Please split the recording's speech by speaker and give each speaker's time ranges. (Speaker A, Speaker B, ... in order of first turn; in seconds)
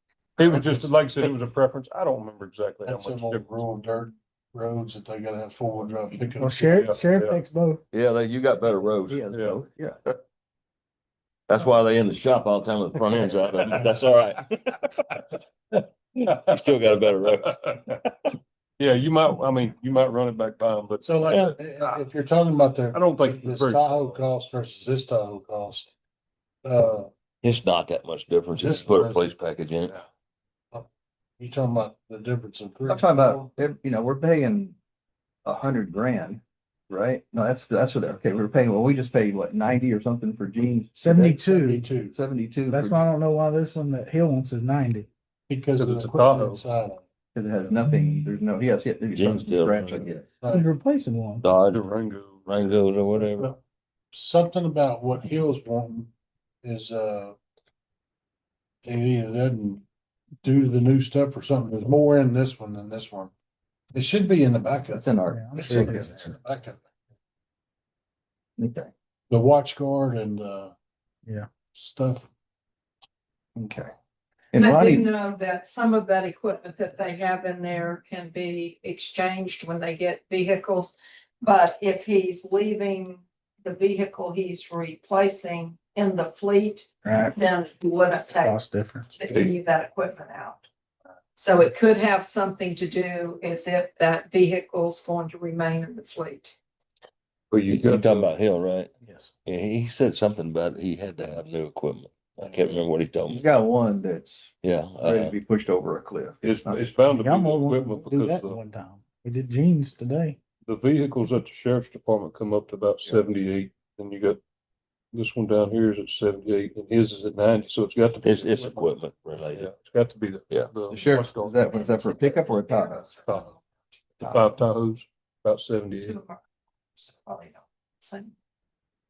Speaker A: 0.4-3.5, 6.6-7.4, 9.3-9.6, 16.3-17.8, 18.8-22.0, 22.9-24.2, 45.8-46.6, 51.7-52.5, 97.5-98.3, 106.4-108.6, 110.7-114.4, 115.1-118.9, 119.5-121.7, 123.2-123.5, 124.2-126.2
Speaker B: 2.8-6.8, 13.7-14.1, 21.0-25.9, 26.6-27.1, 28.5-29.3, 31.4-33.5, 41.5-42.1, 45.5-47.0, 50.4-50.7, 53.1-53.6, 54.1-56.1, 56.6-57.4, 58.8-59.8, 60.4-63.3, 63.9-66.8, 69.3-70.7, 71.7-72.3
Speaker C: 6.4-7.8, 41.0-41.8, 42.7-45.1, 50.5-51.4, 65.3-66.3, 87.0-87.4, 88.4-89.2, 99.0-99.3, 107.1-110.4
Speaker D: 7.9-9.2, 11.5-14.5, 16.3-17.5, 27.4-29.9, 49.1-50.1, 51.4-51.8, 52.5-53.5, 97.7-98.9, 99.5-103.4, 104.6-105.3, 118.2-119.7
Speaker E: 9.1-10.0, 32.9-34.8, 35.4-43.0, 47.3-50.2, 64.9-66.3, 68.6-68.9, 73.5-73.9, 74.5-75.1, 103.3-106.8, 120.9-123.0, 124.2-124.5
Speaker F: 74.6-88.6, 89.2-90.6, 91.3-96.5, 121.7-123.6, 126.0-126.4, 127.0-128.3